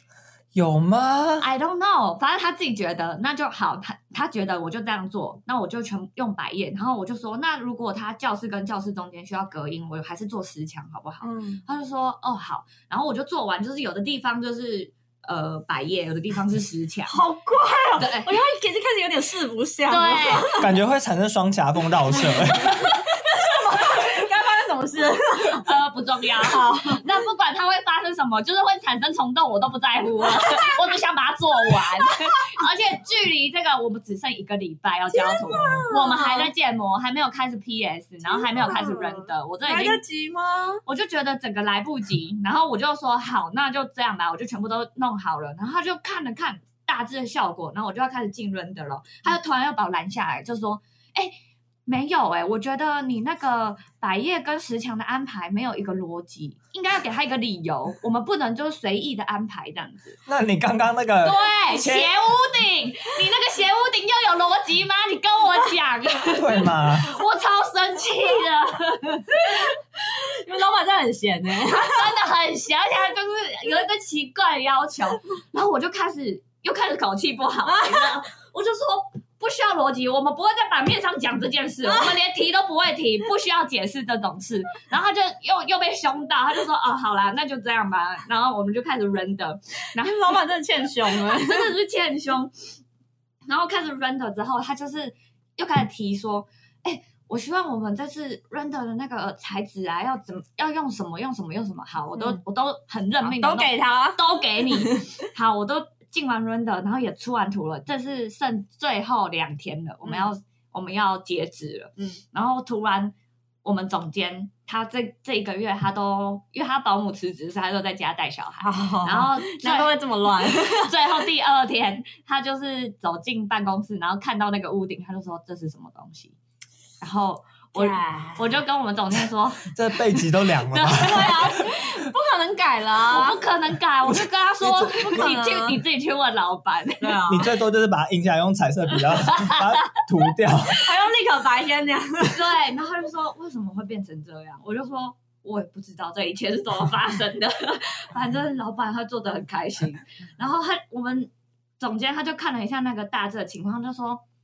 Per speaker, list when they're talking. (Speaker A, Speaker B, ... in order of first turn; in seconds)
Speaker A: 0.5-1.5, 20.6-22.9, 35.5-35.8, 60.3-62.1, 66.3-67.2, 129.7-131.5, 134.1-135.1, 137.3-140.8
Speaker B: 1.4-17.2, 18.0-18.4, 19.9-20.5, 25.6-40.0, 40.9-60.2, 61.2-69.7, 71.7-90.3, 91.1-92.5, 93.5-126.3, 127.0-131.7, 133.1-137.2, 139.2-139.8, 142.2-154.2
Speaker C: 11.2-11.6, 17.1-20.7, 22.1-25.7, 26.4-27.0, 35.1-36.5, 38.3-40.8, 69.3-72.1, 77.7-78.1, 81.9-82.1, 90.0-91.7, 102.2-102.4, 103.2-105.2, 118.6-120.9, 127.8-128.5, 130.9-133.4, 135.0-135.8, 137.0-137.5, 140.7-142.4